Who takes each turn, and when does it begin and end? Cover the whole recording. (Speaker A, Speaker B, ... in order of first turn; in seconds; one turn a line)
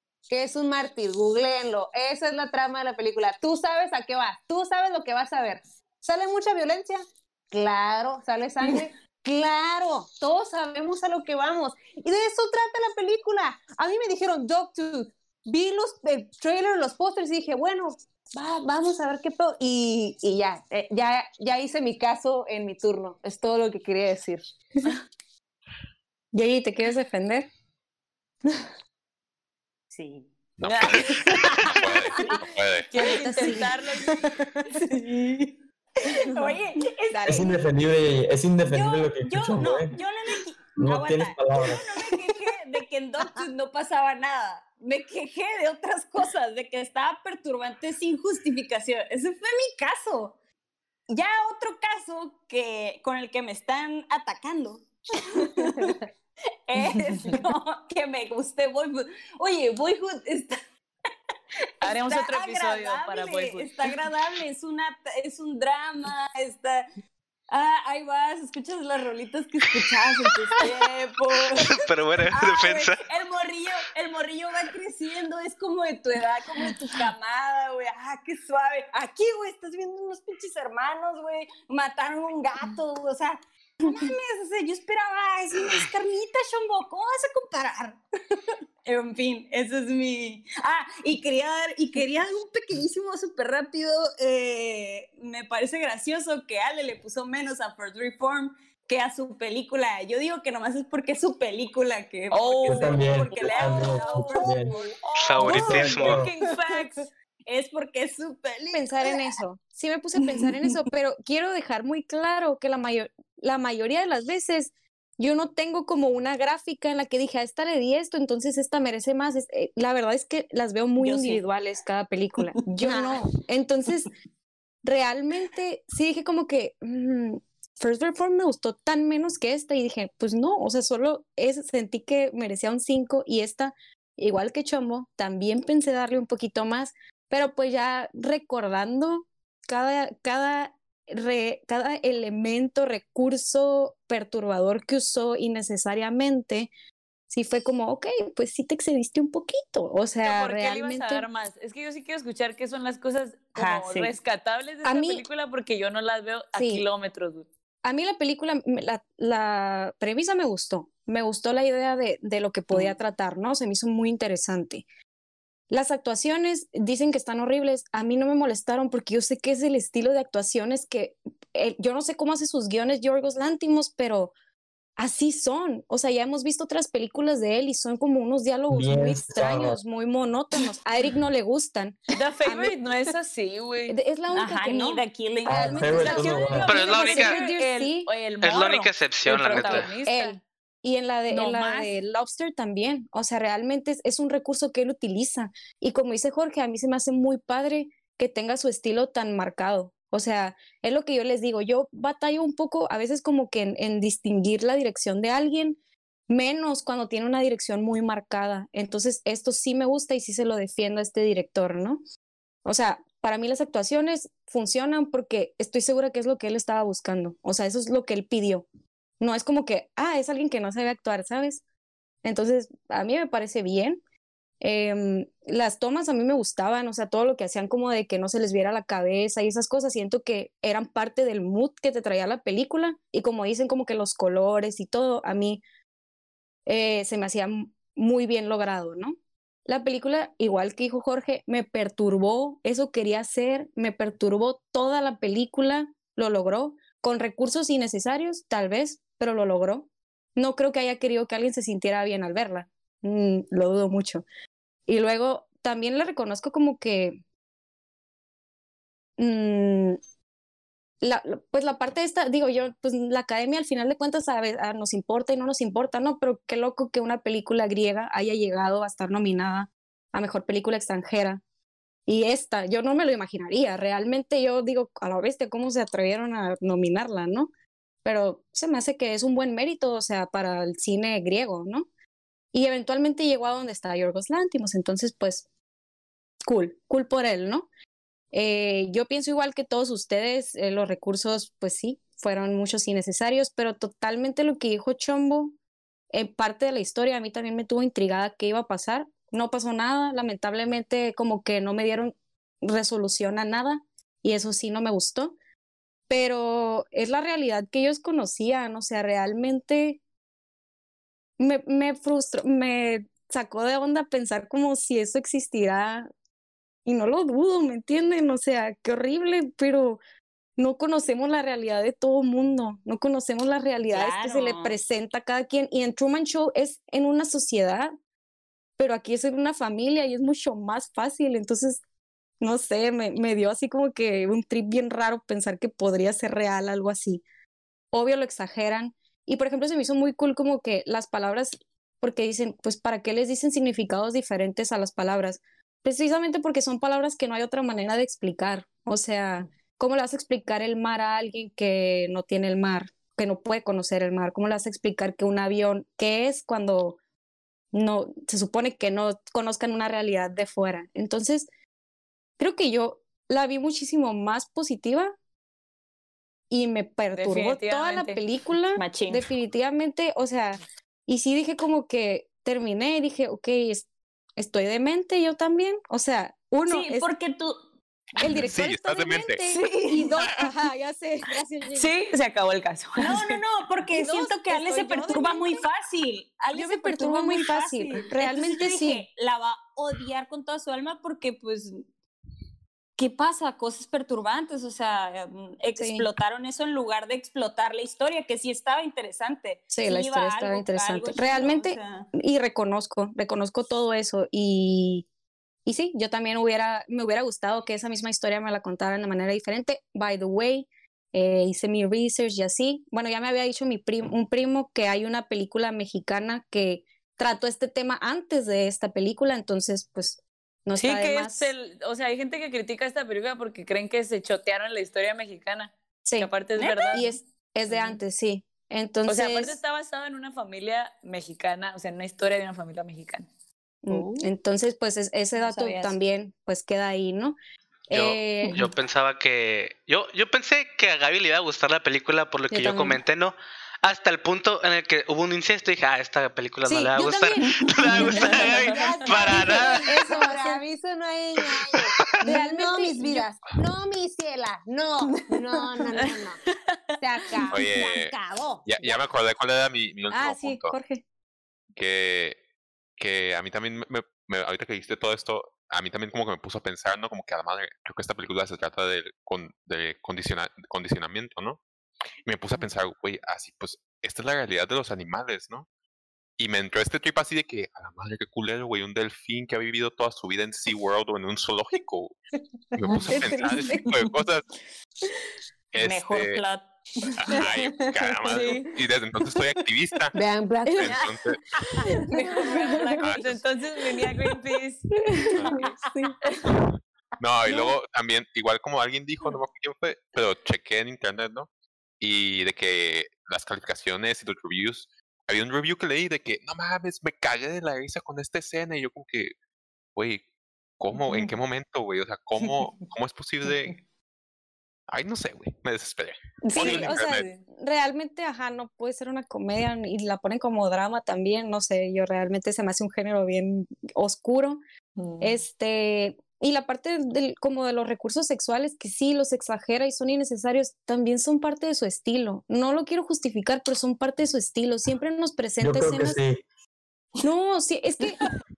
Speaker A: 0.3-24.4
Speaker B: 26.3-27.5
Speaker C: 29.9-30.3
Speaker D: 30.6-32.9
Speaker E: 30.6-32.4
Speaker C: 31.1-32.4
Speaker E: 32.9-34.3
Speaker B: 33.0-34.6
Speaker C: 34.7-37.6
Speaker B: 37.1-37.5
Speaker F: 37.2-40.0
Speaker C: 38.7-50.4
Speaker F: 40.8-42.2
Speaker C: 51.1-55.9
Speaker C: 56.7-60.6
Speaker C: 61.6-66.9
Speaker E: 61.8-63.9
Speaker C: 67.5-109.3
Speaker G: 71.5-73.0
Speaker E: 102.3-104.4
Speaker F: 102.6-104.8
Speaker G: 105.2-106.3
Speaker F: 105.4-106.3
Speaker E: 105.6-107.1
Speaker B: 108.7-124.1
Speaker C: 110.3-110.7
Speaker C: 121.0-121.4
Speaker C: 122.8-123.1
Speaker B: 124.8-146.7
Speaker B: 147.3-151.3
Speaker E: 150.2-157.5
Speaker C: 153.6-154.1
Speaker B: 154.8-155.2
Speaker B: 156.5-156.8
Speaker B: 157.8-164.8
Speaker B: 165.7-174.3
Speaker B: 175.0-182.8
Speaker F: 178.7-179.8
Speaker E: 182.2-184.0
Speaker B: 183.9-188.1
Speaker C: 184.3-186.6
Speaker F: 185.4-186.8
Speaker E: 186.0-190.4
Speaker G: 186.6-187.4
Speaker G: 188.4-189.9
Speaker B: 189.9-205.8
Speaker C: 191.3-191.9
Speaker B: 206.3-212.0
Speaker B: 212.6-218.7
Speaker B: 219.2-221.6
Speaker B: 222.2-224.0
Speaker B: 224.6-235.6
Speaker B: 236.7-254.2
Speaker B: 254.9-257.2
Speaker B: 259.2-260.0
Speaker B: 261.0-271.4
Speaker B: 272.1-277.5
Speaker B: 278.0-281.9
Speaker B: 282.5-285.4
Speaker B: 286.4-287.7
Speaker B: 288.3-295.5
Speaker B: 296.1-305.3
Speaker B: 306.1-310.0
Speaker B: 311.4-316.1
Speaker B: 316.9-320.0
Speaker B: 320.6-327.9
Speaker C: 323.9-324.8
Speaker B: 328.8-331.8
Speaker B: 332.4-337.2
Speaker B: 337.9-357.0
Speaker B: 357.7-361.5
Speaker B: 362.4-365.1
Speaker B: 366.5-377.1
Speaker E: 367.1-368.2
Speaker C: 368.8-369.3
Speaker C: 376.6-377.6
Speaker B: 378.2-381.9
Speaker D: 378.4-379.5
Speaker C: 379.4-380.1
Speaker E: 381.7-383.3
Speaker C: 383.0-391.8
Speaker B: 384.0-385.6
Speaker B: 386.5-389.1
Speaker C: 393.0-402.1
Speaker B: 395.8-396.1
Speaker B: 399.7-405.1
Speaker B: 405.7-421.5
Speaker E: 420.8-427.1
Speaker B: 426.1-426.3
Speaker C: 426.6-427.1
Speaker B: 426.9-429.6
Speaker E: 429.1-433.3
Speaker B: 433.8-437.4
Speaker C: 433.9-434.3
Speaker C: 435.4-436.0
Speaker B: 437.9-438.6
Speaker G: 437.9-449.9
Speaker B: 442.5-443.0
Speaker B: 446.7-450.6
Speaker C: 447.8-449.6
Speaker A: 447.9-456.4
Speaker G: 451.7-452.2
Speaker B: 452.2-453.2
Speaker C: 455.2-455.9
Speaker A: 457.0-459.0
Speaker D: 457.5-460.8
Speaker B: 460.1-461.0
Speaker D: 461.8-462.4
Speaker D: 463.0-471.6
Speaker D: 472.3-475.7
Speaker D: 476.4-482.2
Speaker D: 482.7-484.4
Speaker C: 482.8-483.9
Speaker B: 483.1-483.9
Speaker D: 485.7-486.4
Speaker C: 485.8-488.7
Speaker D: 487.2-490.1
Speaker E: 488.3-488.7
Speaker C: 489.3-489.6
Speaker A: 490.1-491.1
Speaker D: 490.7-491.4
Speaker C: 491.7-493.4
Speaker B: 492.5-492.8
Speaker D: 493.0-493.4
Speaker E: 493.2-494.9
Speaker C: 495.2-496.1
Speaker D: 495.3-495.8
Speaker D: 496.4-501.5
Speaker D: 502.0-509.3
Speaker D: 509.9-510.2
Speaker D: 510.8-513.8
Speaker C: 510.9-511.3
Speaker C: 512.4-512.8
Speaker D: 514.9-517.3
Speaker C: 516.4-517.4
Speaker B: 516.5-524.6
Speaker C: 525.0-525.4
Speaker B: 525.2-536.2
Speaker F: 535.6-536.4
Speaker B: 537.2-538.2